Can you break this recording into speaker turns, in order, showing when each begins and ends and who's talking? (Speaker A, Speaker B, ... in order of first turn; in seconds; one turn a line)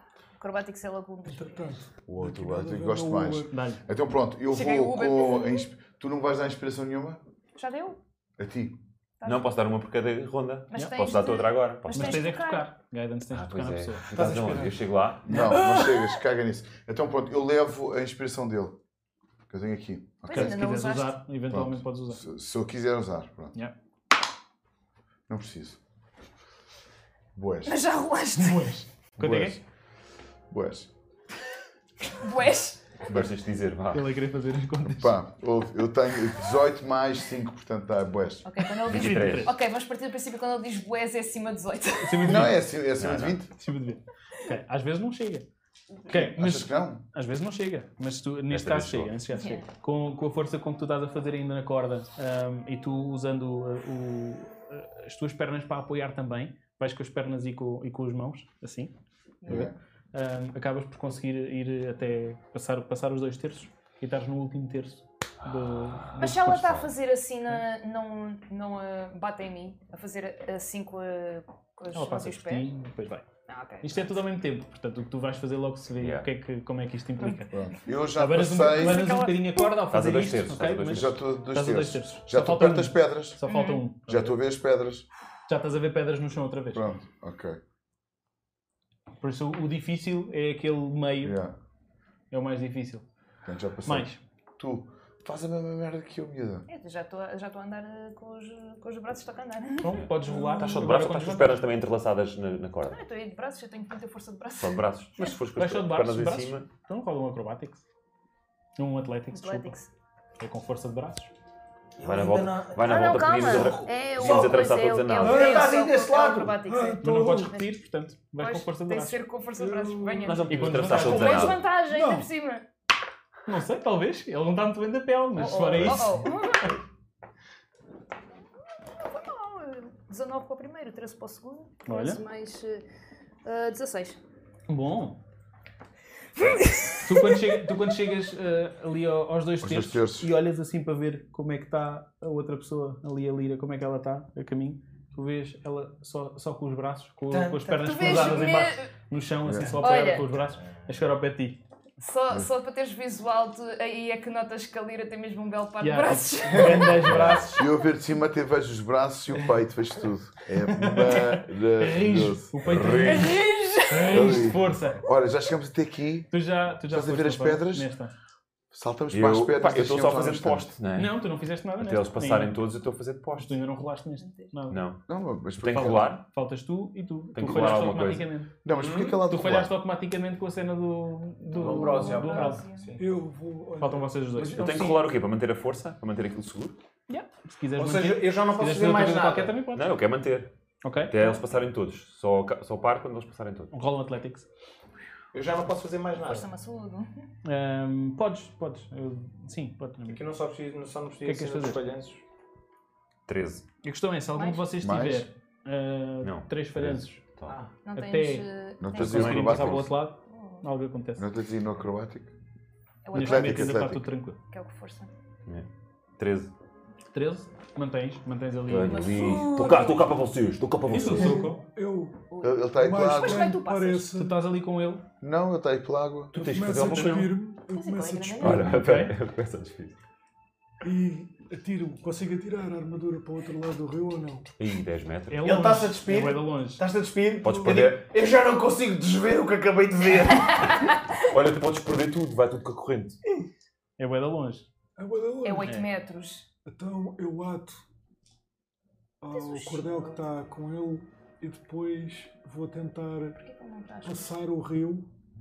Speaker A: 0.4-1.8
Speaker B: 1.2-3.5
Speaker C: 2.1-7.2
Speaker D: 3.5-3.8
Speaker A: 4.5-5.6
Speaker A: 7.5-8.0
Speaker C: 8.4-8.8
Speaker A: 9.2-9.5
Speaker E: 9.2-12.3
Speaker A: 10.7-12.7
Speaker D: 10.7-11.0
Speaker D: 11.9-14.1
Speaker E: 13.3-15.3
Speaker B: 14.1-14.8
Speaker C: 15.2-18.8
Speaker D: 15.3-15.6
Speaker A: 15.5-16.0
Speaker C: 19.5-20.6
Speaker A: 20.2-21.2
Speaker D: 20.3-22.2
Speaker C: 21.5-23.5
Speaker C: 25.3-25.8
Speaker C: 27.3-27.8
Speaker A: 27.6-28.7
Speaker D: 28.4-29.6
Speaker C: 29.2-29.6
Speaker C: 30.5-30.9
Speaker A: 32.2-32.8
Speaker E: 33.0-34.1
Speaker D: 33.9-35.2
Speaker C: 34.8-38.5
Speaker A: 38.4-42.5
Speaker E: 38.8-39.5
Speaker D: 38.9-39.5
Speaker D: 42.0-42.6
Speaker C: 42.2-43.5
Speaker E: 43.0-43.4
Speaker D: 43.6-45.5
Speaker D: 46.1-58.9
Speaker C: 46.2-47.0
Speaker E: 48.5-49.2
Speaker A: 49.3-49.6
Speaker D: 59.4-66.4
Speaker C: 59.5-59.7
Speaker E: 65.4-66.9
Speaker A: 66.2-72.7
Speaker D: 71.9-73.2
Speaker A: 73.5-74.2
Speaker D: 73.8-77.5
Speaker E: 76.0-76.3
Speaker C: 77.5-79.2
Speaker D: 78.1-84.3
Speaker A: 78.7-79.7
Speaker E: 79.9-81.2
Speaker C: 80.8-83.4
Speaker A: 83.4-83.8
Speaker C: 84.1-85.0
Speaker D: 85.5-86.9
Speaker C: 86.7-87.6
Speaker D: 89.2-91.4
Speaker C: 91.2-91.5
Speaker D: 92.3-93.0
Speaker C: 93.4-96.7
Speaker D: 93.8-94.2
Speaker A: 96.7-100.6
Speaker D: 99.8-101.7
Speaker E: 99.9-103.0
Speaker A: 102.9-104.8
Speaker E: 104.6-106.7
Speaker D: 105.2-107.8
Speaker D: 108.8-109.8
Speaker A: 109.3-109.9
Speaker D: 110.4-111.3
Speaker F: 112.0-114.7
Speaker E: 112.0-115.6
Speaker A: 112.8-117.7
Speaker B: 115.2-115.7
Speaker F: 115.2-116.6
Speaker B: 116.6-117.5
Speaker D: 117.0-119.2
Speaker A: 118.4-122.6
Speaker B: 119.5-121.0
Speaker E: 120.2-121.6
Speaker D: 120.5-121.6
Speaker B: 121.8-122.3
Speaker D: 123.5-126.3
Speaker A: 125.3-126.7
Speaker E: 125.4-126.3
Speaker A: 129.0-132.8
Speaker D: 131.8-132.2
Speaker A: 133.4-134.2
Speaker D: 134.7-135.2
Speaker A: 136.4-137.4
Speaker D: 137.0-151.6
Speaker C: 139.6-140.3
Speaker F: 147.3-148.5
Speaker A: 147.8-148.9
Speaker C: 149.4-149.8
Speaker A: 149.8-150.3
Speaker A: 152.0-157.1
Speaker D: 155.8-157.7
Speaker E: 157.0-157.5
Speaker C: 157.2-162.7
Speaker D: 160.8-165.0
Speaker E: 162.6-163.4
Speaker A: 162.9-164.4
Speaker C: 164.1-166.3
Speaker D: 166.3-168.1
Speaker C: 166.9-167.9
Speaker C: 168.7-170.7
Speaker E: 169.1-171.1
Speaker D: 170.9-172.6
Speaker E: 171.8-173.6
Speaker D: 173.4-174.8
Speaker A: 174.2-174.5
Speaker E: 174.7-175.0
Speaker C: 175.1-176.1
Speaker E: 175.6-176.2
Speaker D: 175.7-178.5
Speaker E: 177.3-178.3
Speaker C: 178.6-179.7
Speaker F: 178.7-179.2
Speaker D: 179.2-182.6
Speaker F: 181.5-183.1
Speaker A: 182.0-182.9
Speaker B: 183.0-184.6
Speaker D: 183.8-184.9
Speaker E: 184.4-186.8
Speaker F: 184.4-185.0
Speaker D: 187.1-189.9
Speaker F: 187.8-189.6
Speaker E: 189.7-190.5
Speaker D: 190.8-191.4
Speaker E: 191.1-193.7
Speaker D: 193.7-194.4
Speaker F: 195.3-196.5
Speaker A: 196.2-197.2
Speaker D: 197.4-200.2
Speaker F: 200.1-202.2
Speaker D: 201.2-201.8
Speaker E: 203.3-203.6
Speaker D: 203.8-207.2
Speaker A: 204.3-204.7
Speaker C: 204.8-205.3
Speaker E: 206.2-207.6
Speaker F: 207.5-207.7
Speaker A: 207.8-209.4
Speaker D: 207.9-211.3
Speaker C: 208.8-209.9
Speaker E: 208.9-209.8
Speaker A: 210.3-210.6
Speaker C: 211.2-212.3
Speaker A: 213.0-213.8
Speaker D: 213.1-214.4
Speaker C: 213.1-214.1
Speaker A: 214.5-215.1
Speaker E: 215.4-216.5
Speaker D: 217.1-219.0
Speaker E: 218.7-221.5
Speaker A: 218.8-220.2
Speaker D: 220.9-221.6
Speaker B: 220.9-224.4
Speaker A: 222.3-224.1
Speaker C: 222.4-223.6
Speaker D: 224.1-225.0
Speaker C: 225.2-226.3
Speaker E: 226.3-227.4
Speaker B: 226.3-228.7
Speaker D: 226.6-227.3
Speaker A: 227.6-228.6
Speaker E: 228.4-230.0
Speaker D: 228.4-229.2
Speaker B: 230.8-234.5
Speaker E: 234.6-235.6
Speaker D: 235.3-236.8
Speaker F: 235.4-240.7
Speaker E: 237.4-238.1
Speaker A: 240.6-240.9
Speaker E: 241.1-243.2
Speaker D: 244.0-244.7
Speaker B: 245.0-245.8
Speaker A: 245.4-246.5
Speaker B: 246.7-247.8
Speaker B: 249.2-253.4
Speaker A: 249.3-250.3
Speaker A: 253.4-254.4
Speaker B: 254.0-255.1